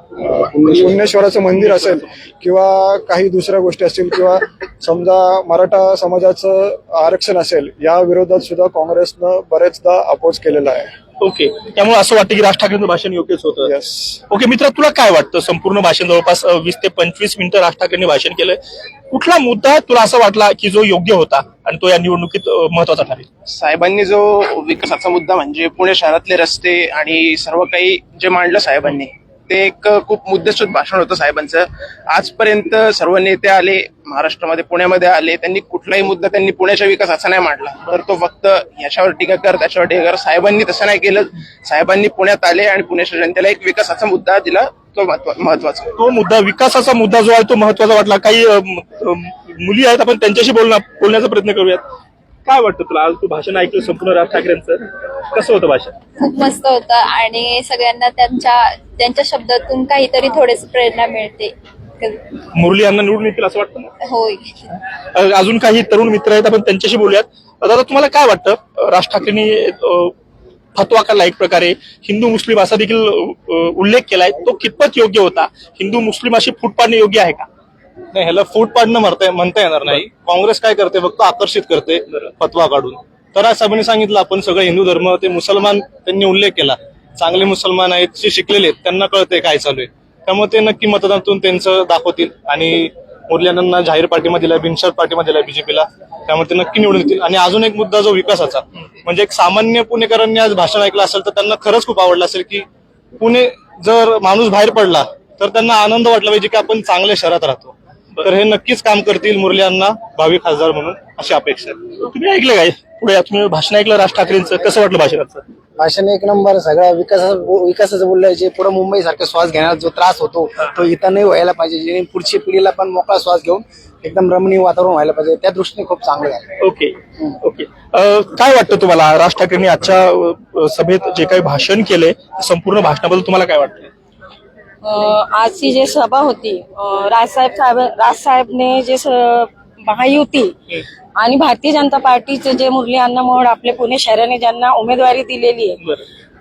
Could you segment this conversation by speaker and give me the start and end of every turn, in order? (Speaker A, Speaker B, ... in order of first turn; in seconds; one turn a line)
Speaker A: 0.2-10.9
Speaker B: 1.5-2.1
Speaker B: 11.2-13.7
Speaker A: 13.7-14.2
Speaker B: 14.3-18.6
Speaker B: 19.1-23.3
Speaker C: 23.4-45.9
Speaker B: 46.0-51.8
Speaker B: 52.5-56.0
Speaker D: 56.1-62.2
Speaker B: 62.5-63.9
Speaker D: 64.0-64.7
Speaker B: 65.1-70.1
Speaker B: 70.8-77.5
Speaker E: 78.1-102.6
Speaker E: 103.2-111.8
Speaker B: 112.0-115.4
Speaker F: 115.8-126.5
Speaker B: 126.6-133.9
Speaker G: 134.8-140.6
Speaker G: 141.2-145.8